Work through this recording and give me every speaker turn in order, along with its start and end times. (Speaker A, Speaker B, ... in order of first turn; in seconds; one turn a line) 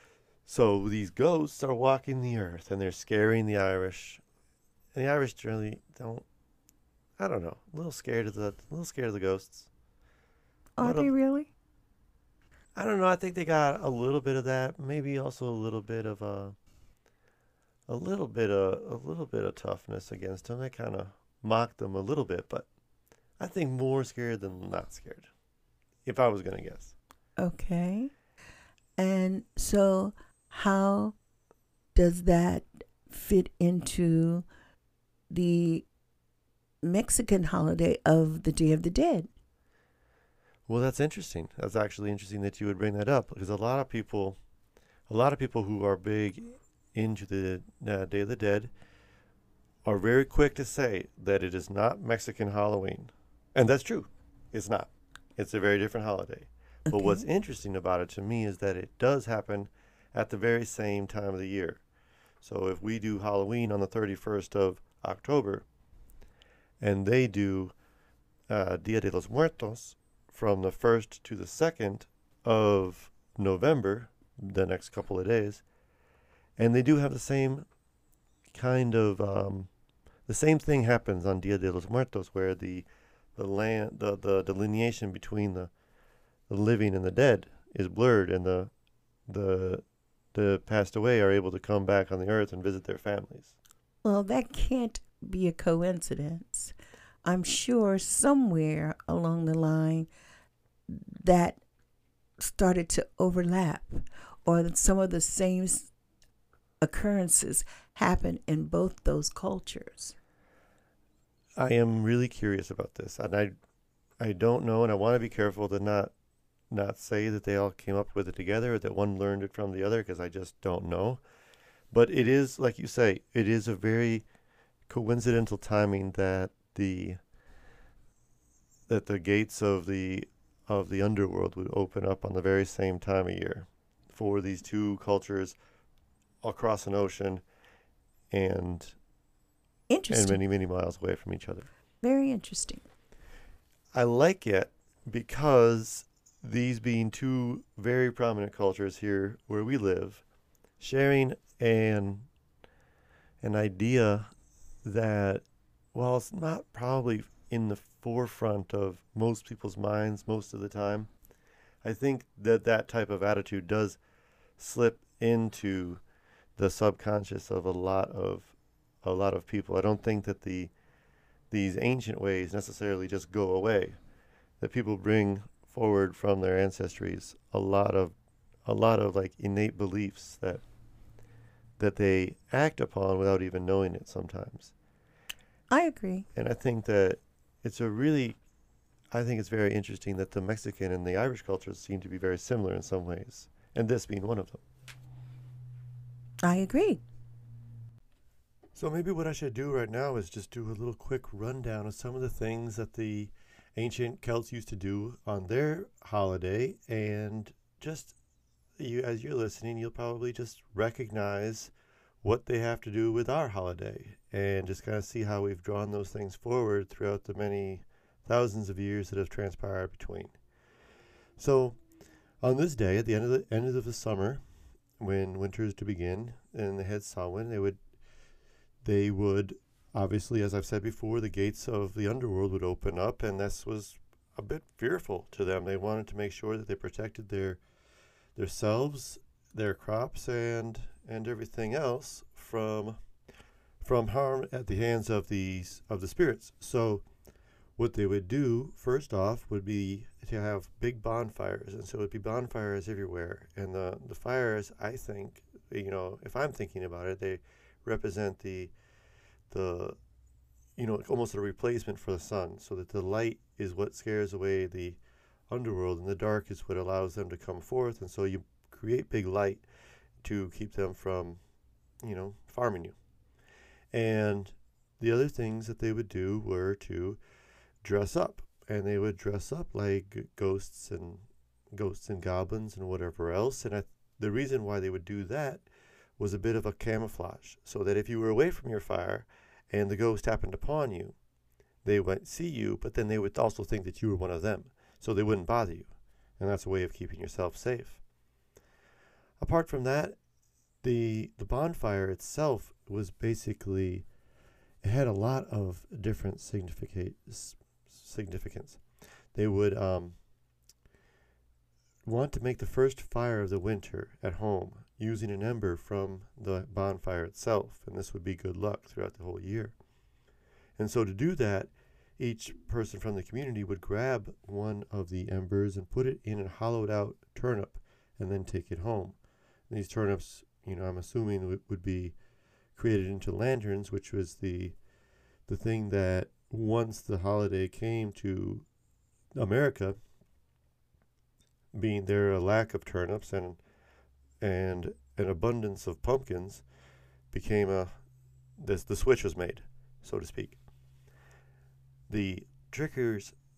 Speaker A: 0.5-4.2
Speaker A: 4.9-6.2
Speaker A: 7.2-9.7
Speaker B: 10.8-11.5
Speaker A: 10.8-11.1
Speaker A: 12.7-16.5
Speaker A: 17.9-22.7
Speaker A: 23.4-25.3
Speaker A: 26.0-26.9
Speaker B: 27.4-28.1
Speaker B: 29.0-31.1
Speaker B: 31.9-34.5
Speaker B: 35.3-35.9
Speaker B: 36.8-39.3
Speaker A: 40.7-44.4
Speaker A: 45.1-48.7
Speaker A: 49.8-61.8
Speaker B: 56.9-57.2
Speaker A: 62.4-65.7
Speaker A: 66.8-67.7
Speaker A: 68.5-75.6
Speaker A: 76.6-77.7
Speaker A: 78.5-79.7
Speaker A: 80.3-85.7
Speaker A: 86.5-88.7
Speaker A: 89.3-93.6
Speaker B: 94.0-100.1
Speaker B: 100.9-101.6
Speaker B: 102.4-105.9
Speaker B: 106.8-110.1
Speaker A: 111.6-113.5
Speaker A: 114.2-116.1
Speaker A: 116.7-121.2
Speaker A: 121.9-124.2
Speaker A: 124.9-127.2
Speaker A: 128.9-135.6
Speaker A: 136.4-137.4
Speaker A: 138.3-138.9
Speaker B: 139.9-140.4
Speaker A: 140.1-141.7
Speaker B: 142.0-142.8
Speaker A: 143.9-150.2
Speaker A: 150.8-152.3
Speaker A: 153.4-154.3
Speaker A: 154.8-161.1
Speaker A: 161.8-164.0
Speaker A: 164.6-166.0
Speaker A: 166.6-170.7
Speaker A: 171.5-174.0
Speaker A: 174.6-180.6
Speaker A: 181.8-184.7
Speaker B: 185.7-186.2
Speaker A: 186.3-188.4
Speaker A: 189.1-194.6
Speaker B: 196.4-197.0
Speaker A: 198.7-208.2
Speaker A: 208.8-220.3
Speaker A: 221.4-221.8
Speaker A: 222.4-224.4
Speaker A: 225.0-227.8
Speaker A: 228.8-237.6
Speaker A: 238.3-243.0
Speaker A: 243.8-247.0
Speaker A: 247.8-258.7
Speaker A: 259.5-260.0
Speaker A: 260.8-269.6
Speaker A: 270.2-271.4
Speaker A: 272.0-272.9
Speaker A: 273.9-277.2
Speaker A: 277.8-285.6
Speaker A: 286.2-291.1
Speaker A: 291.8-298.0
Speaker A: 299.4-300.2
Speaker A: 300.8-304.1
Speaker A: 304.8-308.8
Speaker A: 309.3-310.2
Speaker A: 312.0-319.8
Speaker A: 320.8-329.2
Speaker A: 329.7-332.1
Speaker A: 332.7-334.8
Speaker A: 335.5-338.6
Speaker A: 339.4-340.0
Speaker A: 341.7-343.6
Speaker A: 344.4-346.6
Speaker A: 347.3-347.9
Speaker A: 348.6-350.6
Speaker A: 352.1-353.3